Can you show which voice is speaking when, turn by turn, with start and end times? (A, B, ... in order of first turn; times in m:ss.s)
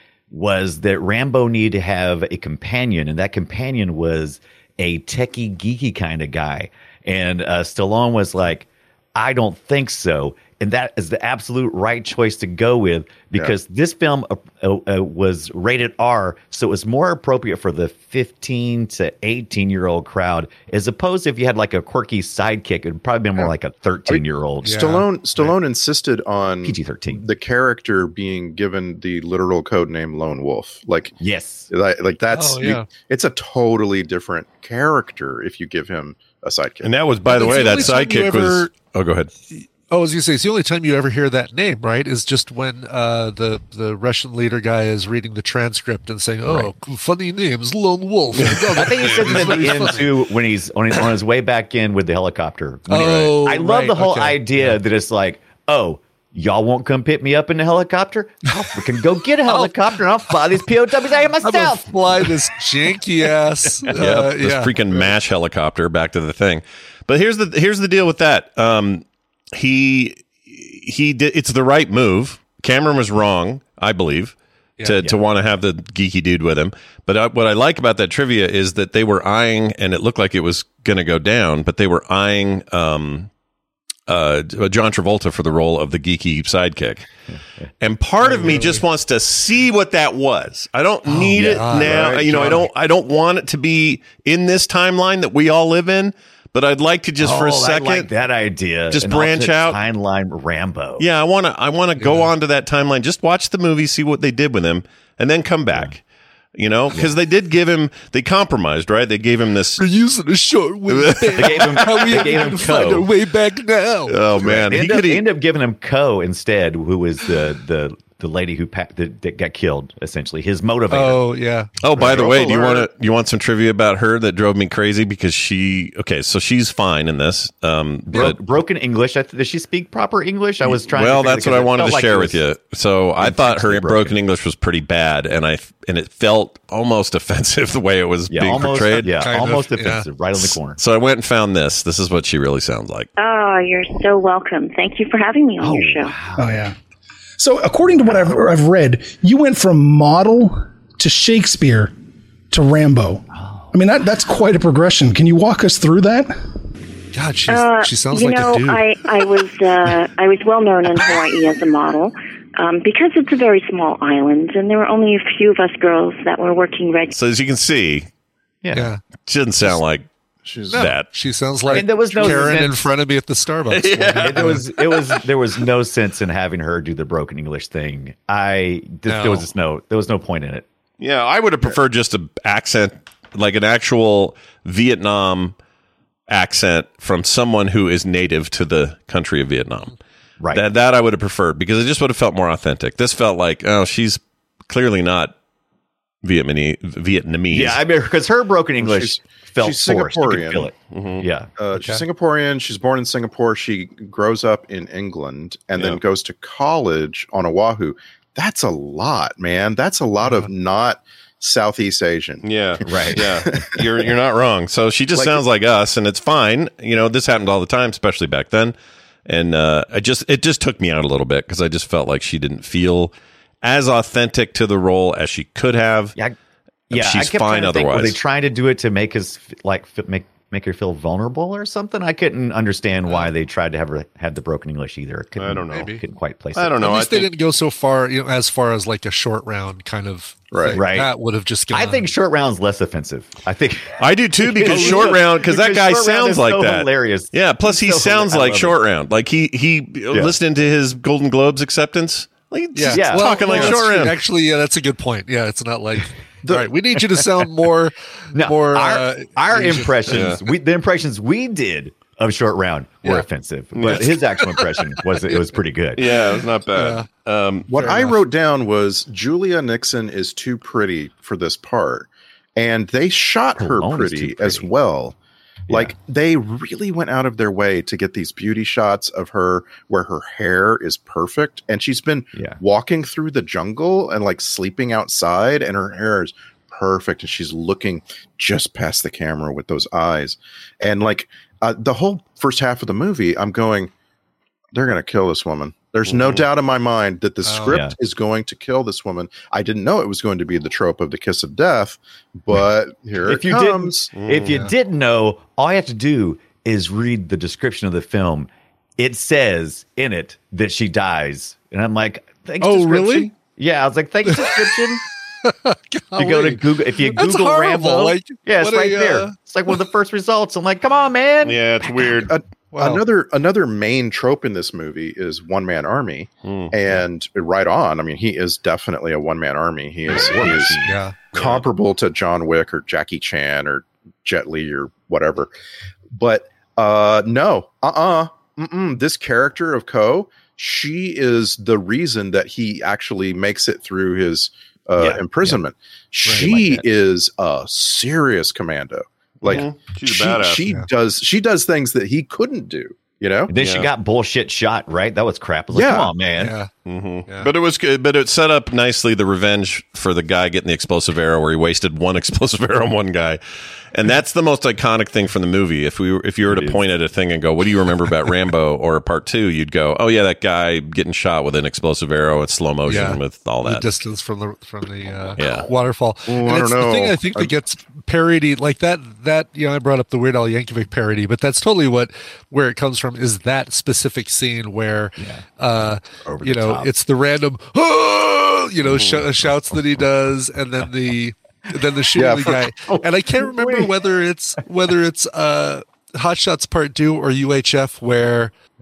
0:00.3-0:24.8 A
0:24.1-0:31.1 B
0:24.6-0:25.5 C
0:26.6-0:27.2 A
0:31.2-0:31.7 A
0:31.7-0:36.9 B
0:32.3-0:32.9 C
0:36.8-0:39.3 D
0:37.2-0:38.7 C
0:39.5-0:50.0 C
0:46.4-0:46.7 A
0:48.5-1:02.3 A
0:52.9-0:54.8 C
0:59.4-0:59.7 C
1:01.4-1:04.7 C
1:04.0-1:23.3 D
1:24.1-1:27.0 D
1:27.8-1:38.1 D
1:28.2-1:28.8 C
1:31.1-1:32.6 C
1:31.3-1:32.6 A
1:37.2-1:41.1 A
1:38.9-1:39.8 D
1:41.0-1:46.0 D
1:42.0-1:42.3 C
1:46.6-1:49.8 D
1:49.8-1:54.2 C
1:50.9-1:51.7 D
1:51.4-1:53.1 A
1:54.1-1:55.2 D
1:54.4-2:01.2 A
2:00.9-2:01.7 C
2:01.8-2:08.4 D
2:02.0-2:02.9 B
2:02.0-2:02.6 A
2:08.1-2:12.4 A
2:10.6-2:19.1 D
2:13.2-2:14.1 A
2:18.3-2:20.8 A
2:19.0-2:20.0 C
2:20.8-2:23.1 D
2:23.2-2:26.2 E
2:25.6-2:26.7 A
2:26.4-2:26.7 F
2:27.4-2:31.9 F
2:28.0-2:28.4 A
2:32.5-2:36.4 F
2:33.3-2:33.7 A
2:37.1-2:38.8 C
2:37.5-2:47.2 E
2:47.1-2:48.1 D
2:48.6-2:48.9 A
2:48.7-2:49.0 C
2:49.2-2:50.1 D
2:50.5-2:50.8 B
2:50.6-2:51.1 D
2:50.7-2:54.6 C
2:51.7-2:52.8 A
2:52.1-2:52.4 D
2:53.7-2:55.2 D
2:54.1-3:00.6 A
2:59.1-2:59.4 C
3:01.0-3:05.6 D
3:06.3-3:09.9 D
3:10.5-3:15.3 D
3:16.2-3:17.8 D
3:17.5-3:21.5 A
3:18.8-3:20.7 B
3:20.9-3:21.2 D
3:21.6-3:33.8 B
3:21.7-3:22.0 C
3:30.2-3:30.5 C
3:32.4-3:38.7 D
3:32.8-3:33.2 A
3:35.1-3:35.4 B
3:39.2-3:46.1 D
3:46.9-3:56.9 A
3:46.9-3:48.2 D
3:55.4-3:55.9 D
3:55.7-3:56.0 C
3:56.5-3:57.3 D
3:56.8-4:02.0 C
4:00.5-4:00.8 B
4:00.7-4:01.1 A
4:01.7-4:08.8 A
4:04.0-4:14.2 D
4:04.7-4:05.1 C
4:12.7-4:20.3 C
4:12.9-4:13.8 A
4:16.4-4:16.7 B
4:18.3-4:26.2 A
4:20.1-4:20.4 D
4:23.7-4:24.2 D
4:23.8-4:25.0 C
4:26.0-4:27.7 D
4:26.7-4:27.1 C
4:27.7-4:35.2 B
4:27.7-4:28.2 C
4:33.6-4:34.7 A
4:35.7-4:35.9 A
4:35.7-4:53.9 B
4:42.3-4:42.6 A
4:54.7-5:04.1 B
4:56.0-4:56.4 D
4:57.4-4:57.8 C
4:57.7-4:57.9 A
5:03.2-5:15.0 A
5:04.1-5:04.5 D
5:12.6-5:13.3 C
5:14.2-5:14.8 C
5:15.4-5:19.3 C
5:16.2-5:22.3 A
5:21.4-5:22.3 D
5:22.2-5:30.8 B
5:22.7-5:23.0 C
5:26.4-5:26.7 D
5:30.1-5:31.0 A
5:30.8-5:31.2 C
5:31.3-5:35.5 B
5:31.3-5:31.6 D
5:36.1-5:53.5 B
5:45.0-5:45.6 A
5:46.3-5:46.8 A
5:49.4-5:50.6 D
5:53.5-5:56.5 A
5:53.6-5:53.9 D
5:55.7-5:56.1 B
5:56.4-5:56.7 C
5:56.8-6:03.4 D
6:03.9-6:13.8 D
6:06.5-6:06.8 A
6:12.8-6:38.5 C
6:15.4-6:15.7 D
6:16.3-6:17.5 B
6:25.2-6:25.4 A
6:26.2-6:26.9 A
6:32.1-6:32.5 B
6:32.7-6:33.9 A